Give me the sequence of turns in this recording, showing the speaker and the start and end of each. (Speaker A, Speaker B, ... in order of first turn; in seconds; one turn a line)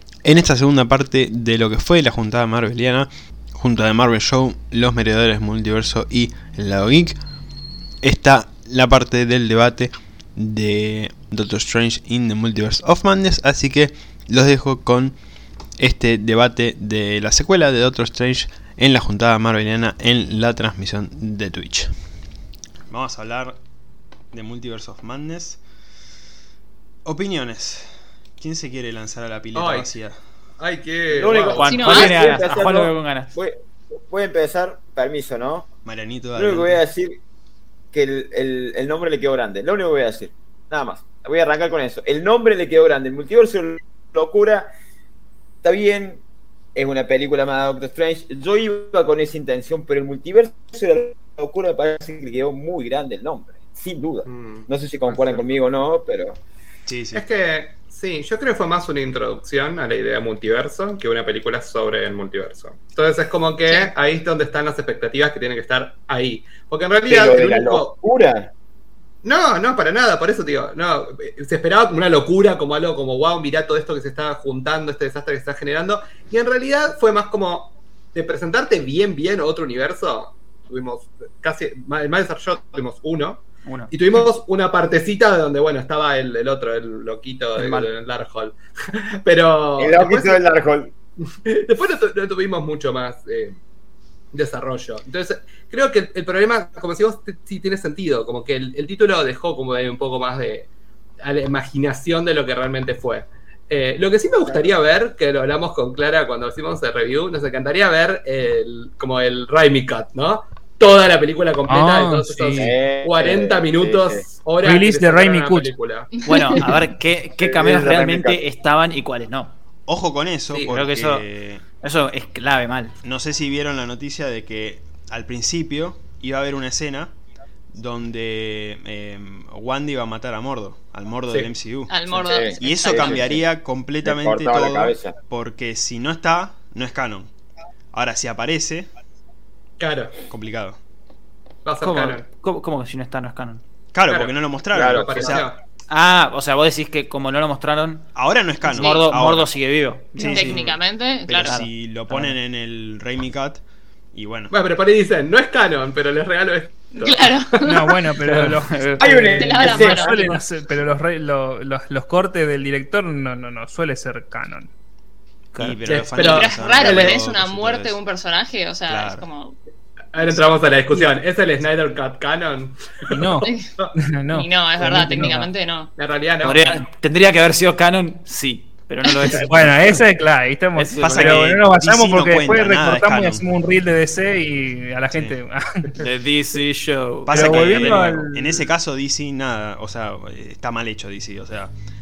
Speaker A: 0.2-7.2
Speaker A: 8.0-15.2
Speaker A: 15.8-21.9
Speaker A: 22.9-23.6
Speaker A: 24.3-25.6
Speaker A: 27.1-30.2
Speaker B: 29.5-29.9
Speaker B: 30.6-31.8
Speaker C: 31.1-35.7
Speaker D: 31.6-33.3
Speaker E: 31.6-32.2
Speaker A: 35.9-36.8
Speaker C: 36.4-37.2
Speaker C: 37.9-44.7
Speaker C: 45.6-46.2
Speaker C: 46.8-56.4
Speaker B: 54.3-55.5
Speaker A: 56.9-57.2
Speaker B: 57.1-68.0
Speaker C: 67.1-68.5
Speaker B: 69.2-90.5
Speaker D: 83.7-83.9
Speaker D: 87.6-87.9
Speaker C: 89.8-90.9
Speaker B: 91.3-93.6
Speaker B: 94.3-100.7
Speaker B: 101.2-116.2
Speaker F: 111.7-112.7
Speaker C: 112.5-114.3
Speaker F: 114.6-115.7
Speaker E: 116.2-116.6
Speaker D: 116.2-119.6
Speaker C: 117.4-118.4
Speaker A: 119.9-121.6
Speaker D: 120.6-121.3
Speaker D: 121.8-122.9
Speaker A: 123.0-127.1
Speaker A: 127.7-137.3
Speaker E: 131.9-133.3
Speaker C: 132.1-133.4
Speaker C: 134.0-135.2
Speaker A: 137.9-138.9
Speaker B: 139.8-140.2
Speaker A: 140.3-140.8
Speaker B: 141.7-142.3
Speaker D: 141.8-143.6
Speaker A: 143.9-145.5
Speaker B: 144.1-145.6
Speaker C: 144.7-145.5
Speaker D: 145.9-148.1
Speaker A: 148.1-149.6
Speaker D: 148.7-150.7
Speaker E: 148.7-149.1
Speaker E: 150.2-151.6
Speaker F: 150.2-150.5
Speaker B: 150.4-150.8
Speaker A: 151.3-153.6
Speaker D: 151.4-152.4
Speaker A: 154.1-154.5
Speaker B: 154.5-157.5
Speaker E: 156.9-158.0
Speaker F: 157.6-164.7
Speaker D: 158.2-159.4
Speaker C: 159.0-160.3
Speaker E: 159.3-160.3
Speaker D: 165.5-165.8
Speaker A: 165.6-167.9
Speaker B: 165.8-167.2
Speaker E: 166.2-169.6
Speaker A: 168.9-169.3
Speaker B: 170.1-173.9
Speaker F: 173.1-175.4
Speaker E: 173.4-173.7
Speaker E: 174.3-175.9
Speaker D: 174.8-175.4
Speaker B: 176.0-176.8
Speaker D: 176.4-180.0
Speaker F: 179.3-186.0
Speaker D: 180.8-181.6
Speaker A: 181.0-183.5
Speaker A: 185.1-185.4
Speaker D: 186.0-188.3
Speaker A: 187.3-191.7
Speaker F: 187.3-188.7